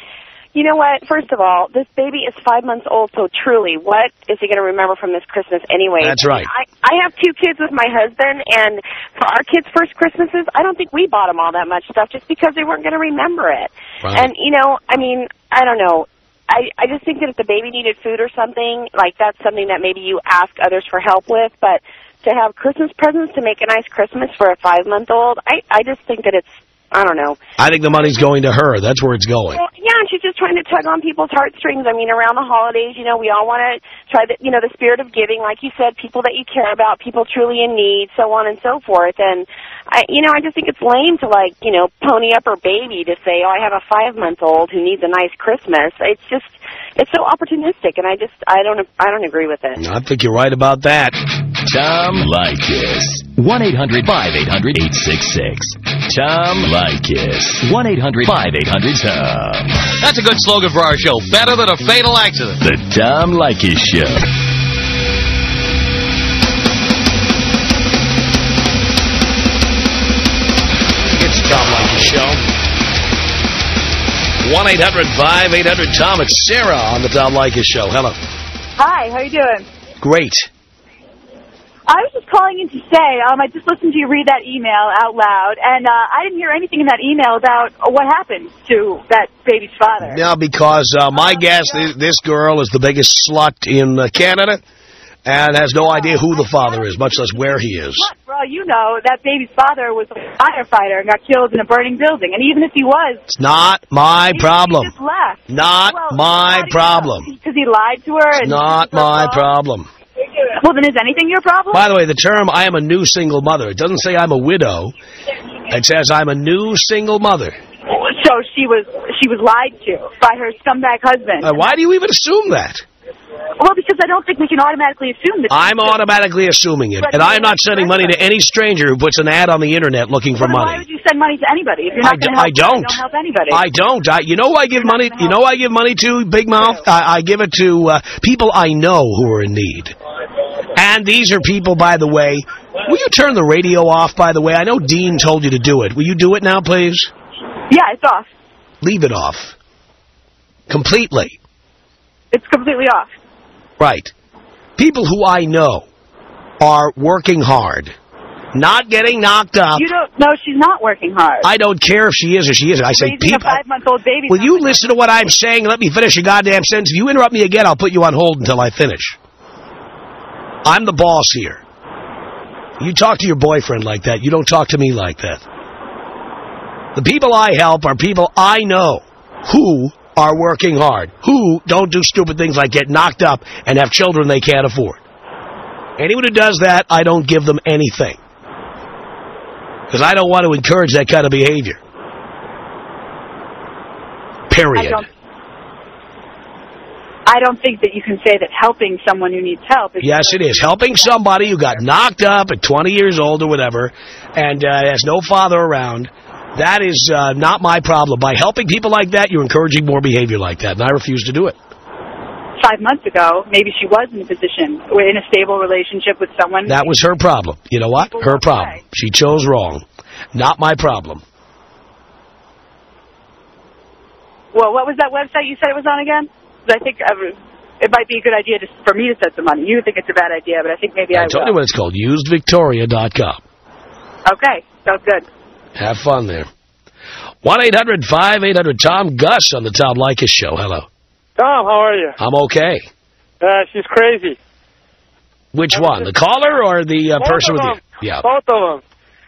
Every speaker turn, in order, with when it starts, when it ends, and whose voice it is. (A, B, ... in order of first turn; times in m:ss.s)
0:00.6-0:27.4 A
0:06.0-0:06.5 B
0:14.0-0:14.3 B
0:27.6-0:29.6 B
0:29.6-0:49.8 A
0:49.8-0:51.2 B
0:51.7-0:59.8 C
1:00.0-1:02.6 D
1:02.6-1:04.2 C
1:11.1-1:12.4 B
1:14.4-1:18.2 B
1:18.8-1:19.7 E
1:20.0-1:20.5 B
1:21.9-1:30.2 E
1:30.0-1:34.6 B
1:31.1-1:31.9 E
1:35.2-1:38.1 B
1:35.8-1:43.3 E
1:43.3-1:44.9 B
1:44.3-1:49.5 E
1:45.5-1:47.3 B
1:48.4-1:49.9 B
1:50.6-1:51.9 E
1:51.7-1:54.9 B
1:55.7-1:57.6 B
1:57.9-2:01.7 E
2:01.4-2:02.8 B
2:03.6-2:06.0 E
2:05.5-2:10.8 B
2:07.0-2:08.2 E
2:10.4-2:13.7 E
2:12.0-2:20.0 B
2:14.8-2:15.5 E
2:20.7-2:27.1 B
2:27.7-2:28.3 E
2:28.8-2:29.6 B
2:30.7-2:31.4 B
2:32.3-2:33.1 E
2:33.8-2:34.1 B
2:34.8-2:35.9 B
2:36.6-2:38.0 B
2:38.5-2:39.9 B
2:39.8-2:41.5 E
2:41.4-2:43.6 B
2:42.9-2:45.1 E
2:44.3-2:49.2 B
2:50.6-2:51.6 B
2:52.8-2:55.4 B
2:57.0-3:05.0 B
3:06.0-3:08.2 B
3:09.9-3:11.8 B
3:14.5-3:15.0 B
3:14.8-3:15.1 E
3:17.3-3:21.8 E
3:20.0-3:31.6 B
3:32.6-3:36.9 E
3:36.7-3:41.2 B
3:38.0-3:38.8 E
3:44.5-3:51.6 E
3:51.1-3:53.4 B
3:54.2-3:55.2 E
3:55.8-3:56.5 B
3:57.4-4:00.9 B
4:01.4-4:02.2 F
4:02.2-4:02.9 B
4:03.4-4:04.4 F
4:05.5-4:08.2 B
4:05.7-4:06.1 F
4:07.2-4:08.8 F